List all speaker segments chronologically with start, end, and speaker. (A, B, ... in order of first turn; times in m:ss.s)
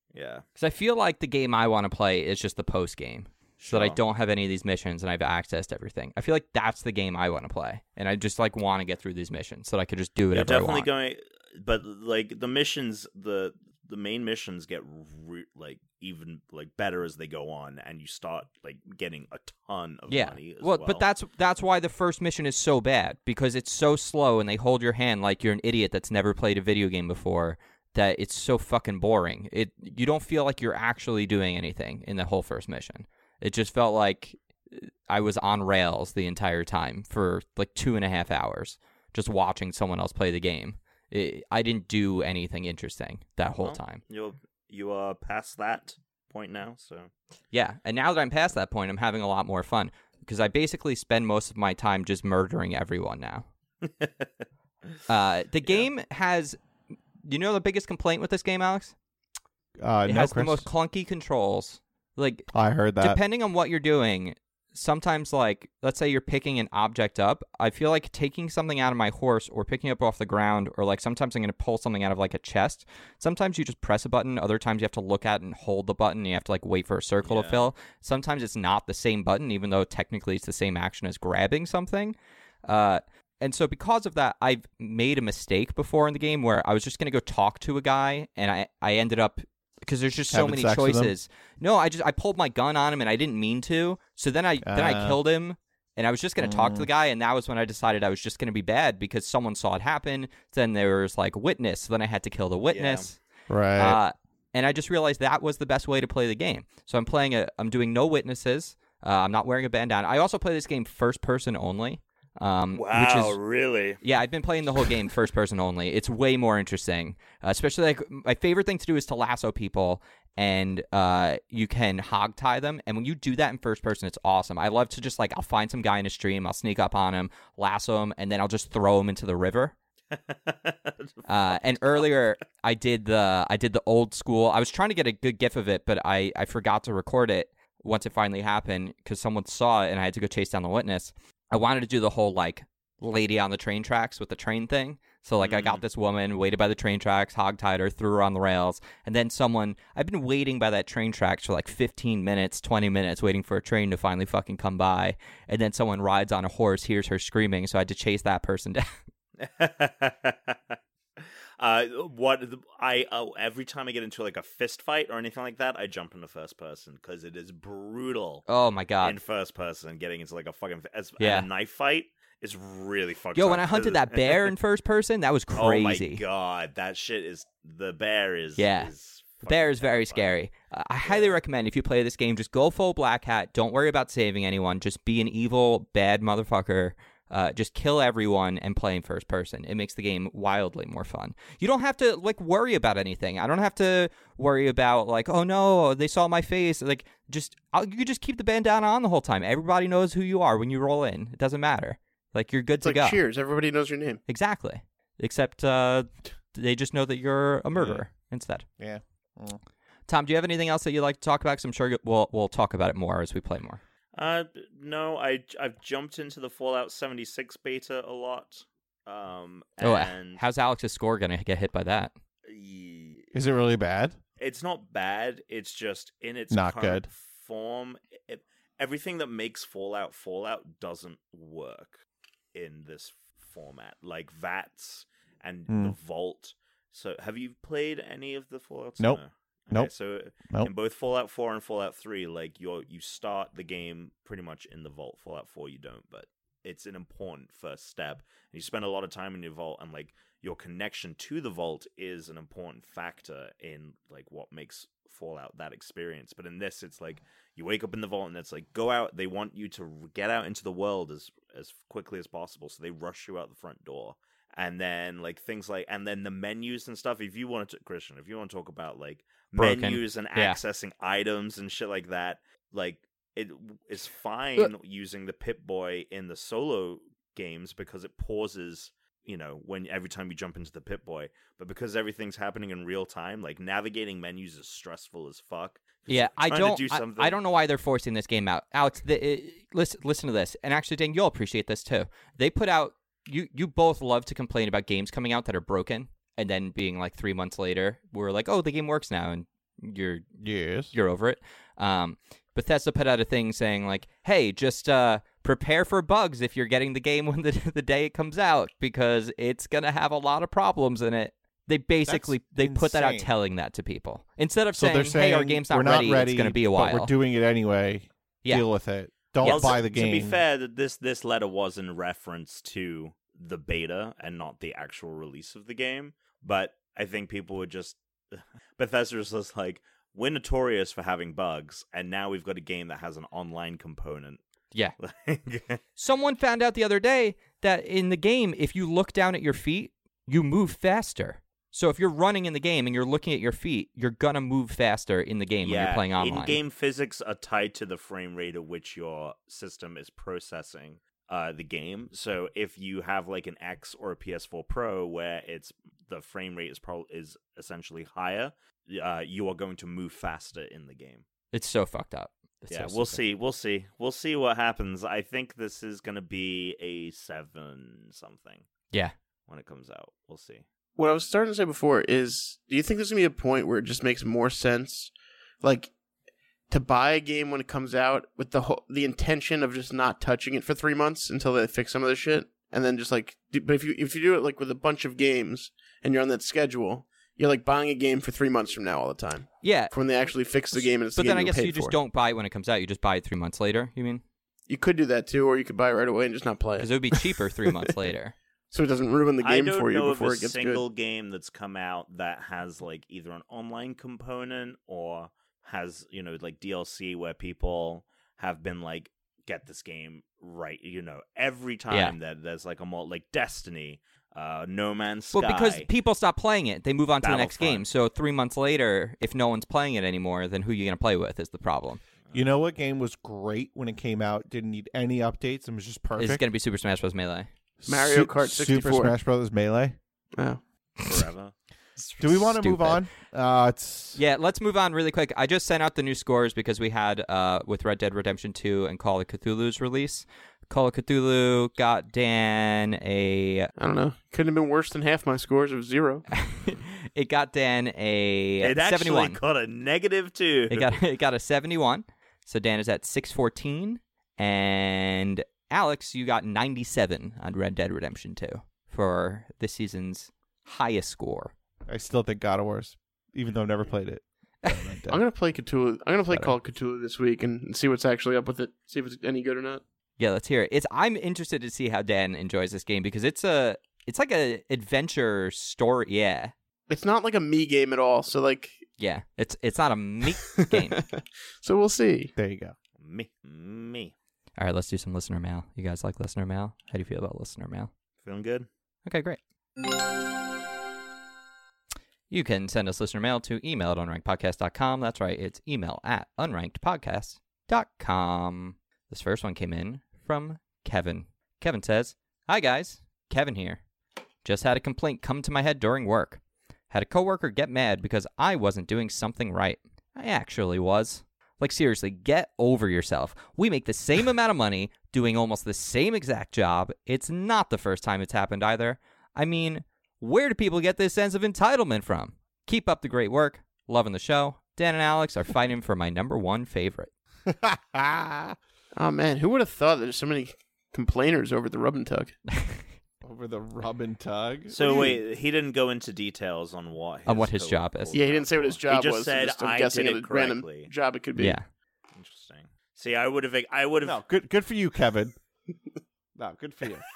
0:00.1-0:00.4 A
0:00.6-0:10.9 B
0:03.6-0:04.0 A
0:10.3-0:21.0 A
0:20.1-0:44.0 B
0:43.6-0:47.1 A
0:47.5-0:53.5 B
0:53.8-0:54.3 A
0:55.1-0:56.6 B
0:57.2-0:58.9 B
0:59.8-1:00.7 C
1:00.1-1:02.5 B
1:02.5-1:03.2 C
1:03.0-1:43.2 B
1:17.2-1:17.7 A
1:30.3-1:31.1 C
1:34.6-1:35.2 C
1:36.4-1:36.9 C
1:42.7-1:43.1 A
1:43.5-1:44.0 C
1:43.8-1:53.4 B
1:52.7-1:54.0 A
1:54.0-2:09.7 B
2:10.1-2:12.1 A
2:11.3-2:38.8 B
2:25.4-2:25.8 A
2:39.4-2:48.5 A
2:48.5-2:49.2 B
2:49.0-2:54.5 A
2:51.2-2:51.5 B
2:53.4-2:56.2 B
2:55.6-3:00.3 A
2:58.6-2:58.9 B
2:59.4-3:23.2 B
3:01.0-3:01.4 A
3:22.8-3:24.2 D
3:24.3-3:28.7 B
3:27.8-3:28.0 C
3:28.8-3:29.6 C
3:30.1-3:33.8 B
3:34.2-3:40.4 A
3:39.8-3:42.1 B
3:42.5-3:43.3 A
3:43.3-3:44.2 C
3:44.4-3:52.0 A
3:46.5-3:47.0 C
3:52.5-4:47.4 A
3:55.7-3:56.0 C
4:29.6-4:30.6 B
4:46.1-5:00.3 B
5:00.4-5:00.9 C
5:00.9-5:17.1 B
5:12.1-5:13.3 C
5:14.8-5:20.4 C
5:19.4-5:34.4 A
5:19.4-5:19.7 B
5:35.0-5:35.8 A
5:36.0-5:46.6 B
5:45.6-6:01.2 A
6:01.5-6:03.2 B
6:02.7-6:08.7 A
6:09.5-6:10.6 A
6:11.0-6:15.9 D
6:16.7-6:32.0 D
6:29.6-6:29.9 B
6:30.7-6:34.2 B
6:34.7-6:37.9 D
6:36.8-6:38.3 B
6:38.7-6:40.8 D
6:39.4-6:55.9 A
6:51.9-6:52.2 B
6:55.3-7:02.0 B
6:57.2-6:57.8 A
7:02.3-7:06.4 C
7:06.2-7:07.5 B
7:07.8-7:10.0 C
7:07.9-7:09.2 D
7:11.0-7:11.5 A
7:12.0-7:13.1 B
7:12.2-7:14.2 C
7:14.2-7:23.7 B
7:23.8-7:26.2 D
7:26.3-7:29.4 B
7:28.6-7:30.9 A
7:30.7-7:41.5 B
7:41.9-7:45.2 C
7:45.1-7:49.8 D
7:46.3-7:46.6 C
7:50.2-7:56.5 B
7:56.9-7:58.8 D
7:59.0-8:01.0 B
8:00.5-8:02.3 D
8:02.4-8:02.8 C
8:03.0-8:04.1 A
8:04.6-8:07.9 B
8:08.2-8:08.7 A
8:09.1-8:09.4 B
8:12.3-8:23.8 B
8:24.4-8:47.1 B
8:47.5-8:48.6 C
8:49.0-8:52.4 D
8:52.5-8:52.8 B
8:53.2-8:55.2 C
8:54.7-9:00.9 A
8:57.3-8:58.2 B
8:58.1-9:01.6 D
9:01.4-9:01.6 B
9:02.2-9:04.2 A
9:04.0-9:05.4 C
9:06.4-9:07.0 C